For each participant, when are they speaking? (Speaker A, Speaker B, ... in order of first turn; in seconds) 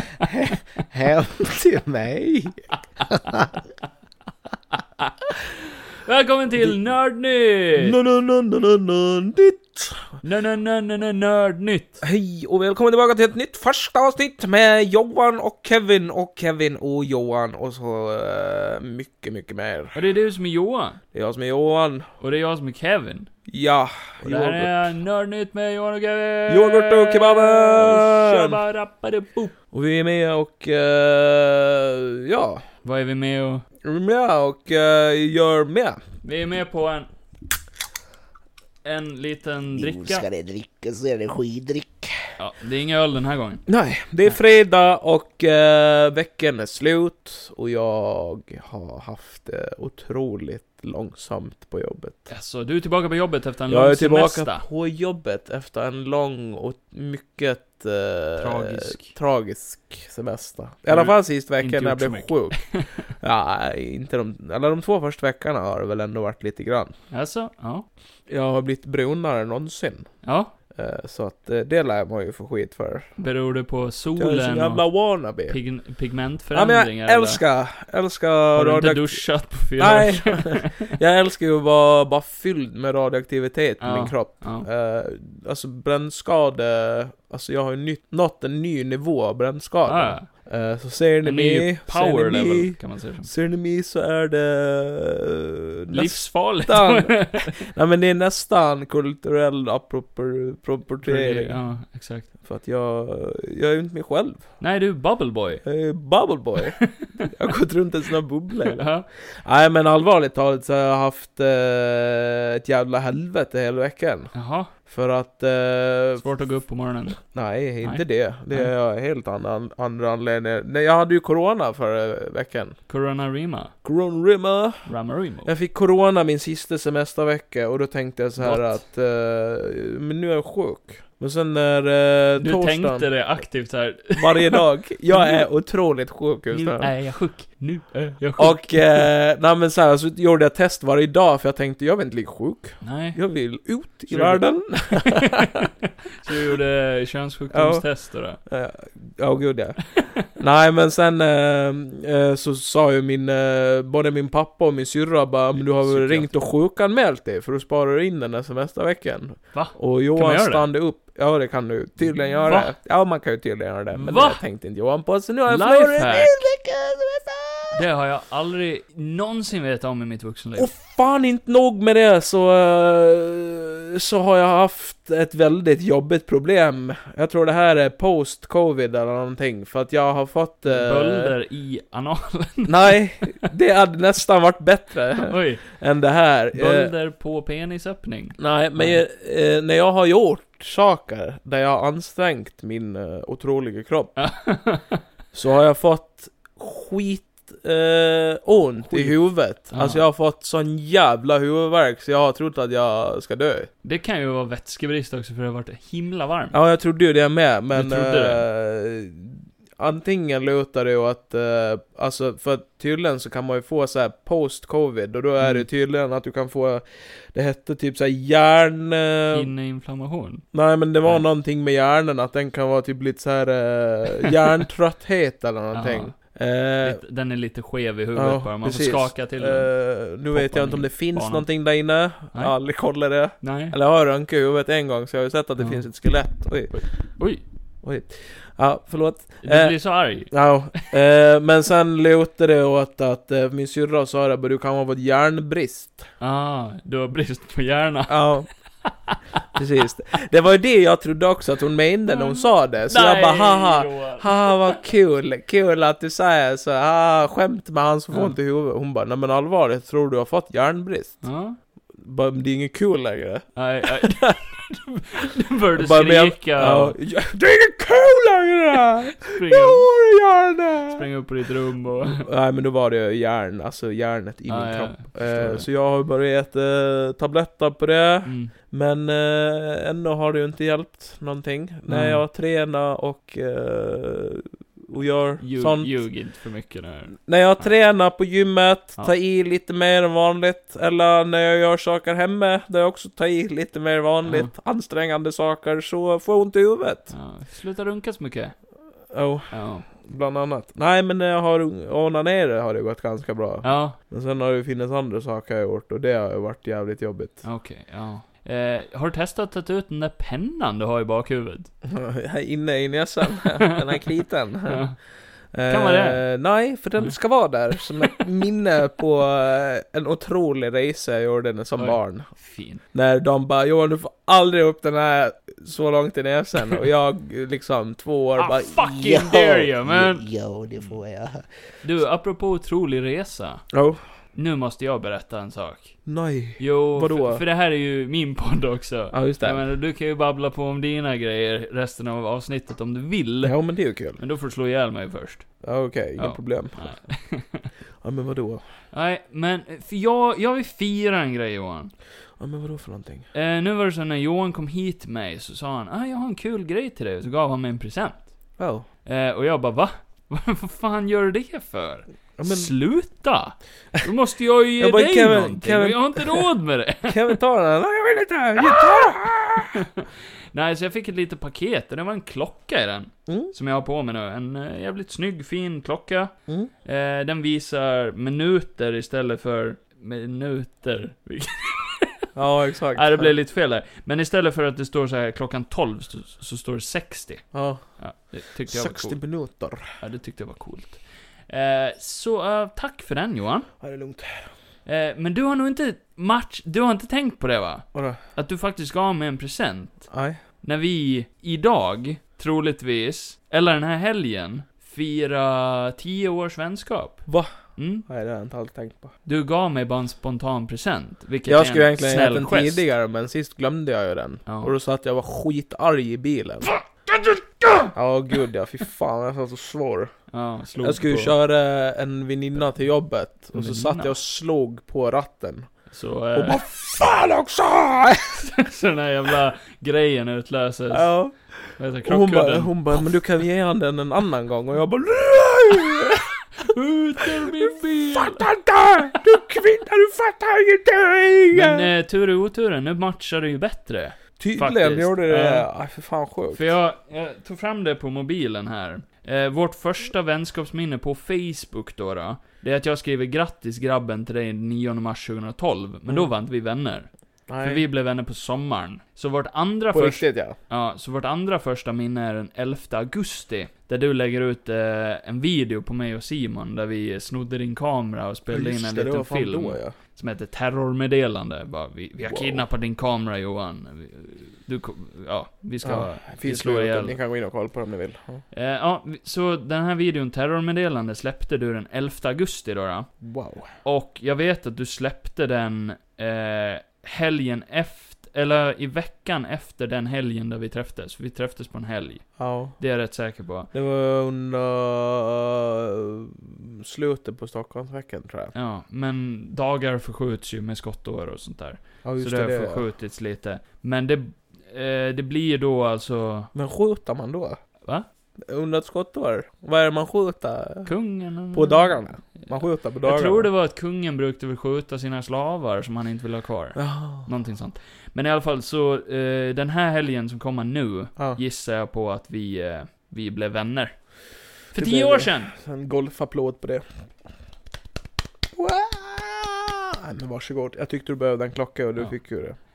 Speaker A: 0.2-3.5, 7.8-10.1, 12.0-20.0, 21.1-22.1, 23.5-24.9, 26.5-28.6, 29.7-32.6, 33.8-36.0, 39.8-42.1, 43.7-52.3, 53.7-66.9, 68.3-70.1, 70.7-73.1, 74.2-75.6, 76.5-101.5, 102.4-104.5, 105.6-108.8, 109.4-114.3, 114.9-116.2, 117.3-122.8, 123.8-124.9, 125.5-133.1, 134.1-136.9, 138.4-145.7, 147.5-147.8, 148.4-149.8, 150.3-167.8, 170.6-181.3, 182.7-186.9, 188.4-194.2, 195.3-203.7, 206.5-219.5, 220.5-227.0, 228.1-236.8, 237.8-246.1, 248.1-248.5, 249.5-261.2, 262.0-264.4, 265.8-271.1, 272.1-285.9, 287.2-297.1, 299.1-307.4, 311.8-314.8, 315.5-322.3, 322.9-331.4, 333.7-334.0, 336.1-337.4, 339.1-339.6, 343.4-344.2, 345.6-347.0, 348.0-348.6, 352.4-353.3, 358.6-358.9, 362.4-362.7, 364.8-366.5, 367.0-369.8, 373.3-373.5, 382.3-383.3, 387.5-387.8, 388.7-389.9, 393.8-394.5, 397.9-398.2, 400.1-400.4, 408.1-409.1, 411.5-416.7, 417.9-420.1, 420.8-425.7, 426.3-428.4, 430.9-431.3, 432.0-436.3, 437.2-441.9, 444.4-446.7, 457.5-457.8, 459.9-460.6, 468.5-469.9, 472.2-472.6, 475.8-478.4, 483.2-483.7, 492.4-492.8, 493.7-498.5, 502.0-502.8, 506.5-507.6, 508.5-510.9, 511.5-513.5, 516.8-517.3, 524.7-526.8, 528.6-532.6
Speaker B: 6.0-7.9, 10.2-12.0, 19.9-21.0, 22.2-23.3, 24.2-29.5, 32.8-33.6, 36.2-37.1, 38.8-40.2, 42.4-43.6, 52.3-54.7, 58.4-59.1, 60.9-63.0, 67.1-67.9, 70.2-70.5, 73.2-74.8, 75.5-77.4, 78.5-80.9, 83.8-84.7, 89.8-90.3, 91.2-93.3, 95.9-97.6, 101.0-102.3, 104.6-105.6, 106.8-107.2, 108.7-109.1, 114.3-114.7, 116.2-117.2, 117.8-118.7, 122.9-123.7, 124.9-125.5, 128.4-128.8, 132.4-135.4, 136.5-139.0, 142.8-143.2, 144.1-145.2, 146.2-148.4, 149.9-150.2, 155.5-156.3, 159.5-160.7, 162.1-162.7, 163.9-164.4, 165.5-166.3, 167.7-170.7, 180.7-183.0, 185.2-185.7, 186.5-189.0, 194.2-195.0, 198.9-200.0, 203.8-206.5, 207.7-208.4, 215.4-215.7, 219.3-220.4, 225.7-226.1, 226.8-229.7, 230.3-231.4, 233.4-233.7, 236.7-237.4, 239.4-240.8, 246.2-248.3, 248.8-249.2, 252.1-254.8, 261.2-261.6, 263.6-266.9, 269.3-269.9, 270.9-272.2, 274.5-275.7, 278.2-278.5, 281.9-282.2, 285.4-287.7, 294.2-294.5, 297.1-298.6, 299.5-299.9, 303.6-304.0, 307.4-311.7, 314.7-315.0, 315.7-316.2, 321.8-322.8, 328.4-331.0, 331.8-333.7, 334.3-336.0, 336.6-343.6, 344.2-345.6, 346.2-347.7, 348.9-351.9, 353.3-358.3, 359.1-367.3, 368.6-376.3, 376.8-382.2, 382.9-389.2, 390.0-393.7, 394.9-400.1, 400.6-408.1, 409.2-412.8, 414.4-414.7, 420.3-421.3, 423.5-424.1, 425.9-426.6, 428.4-431.1, 431.8-433.1, 436.6-438.4, 441.5-445.7, 446.5-477.2, 478.5-483.1, 483.8-493.7, 498.6-506.5, 510.9-525.5